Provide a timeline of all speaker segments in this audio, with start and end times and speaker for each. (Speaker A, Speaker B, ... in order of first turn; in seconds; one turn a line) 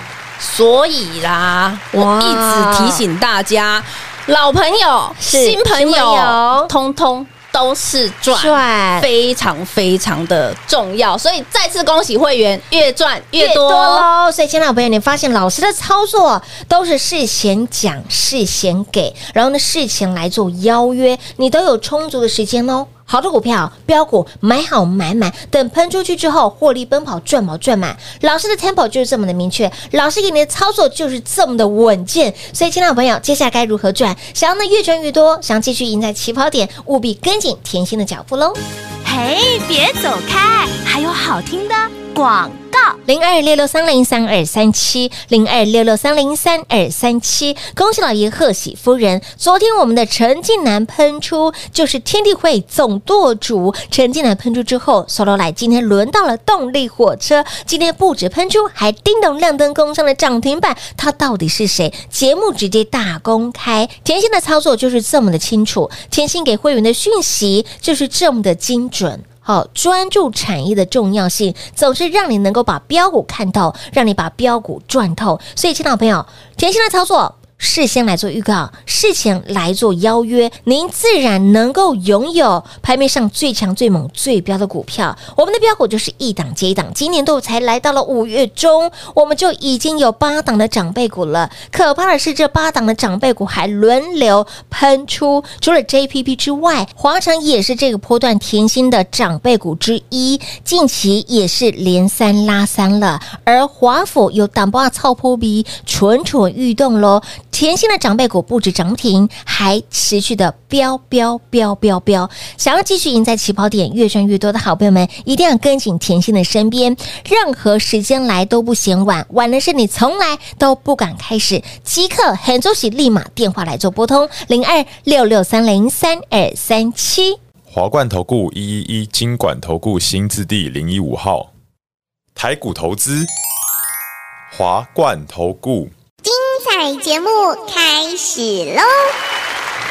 Speaker A: 0.4-14.1
Speaker B: 1.9-3.0
Speaker B: 5.2-6.7
Speaker B: 8.3-9.1
Speaker B: 13.4-38.6
Speaker C: 39.0-43.0
Speaker B: 43.0-127.4
Speaker D: 127.7-131.5
Speaker D: 132.3-133.3
Speaker D: 134.5-135.9
Speaker E: 136.2-139.1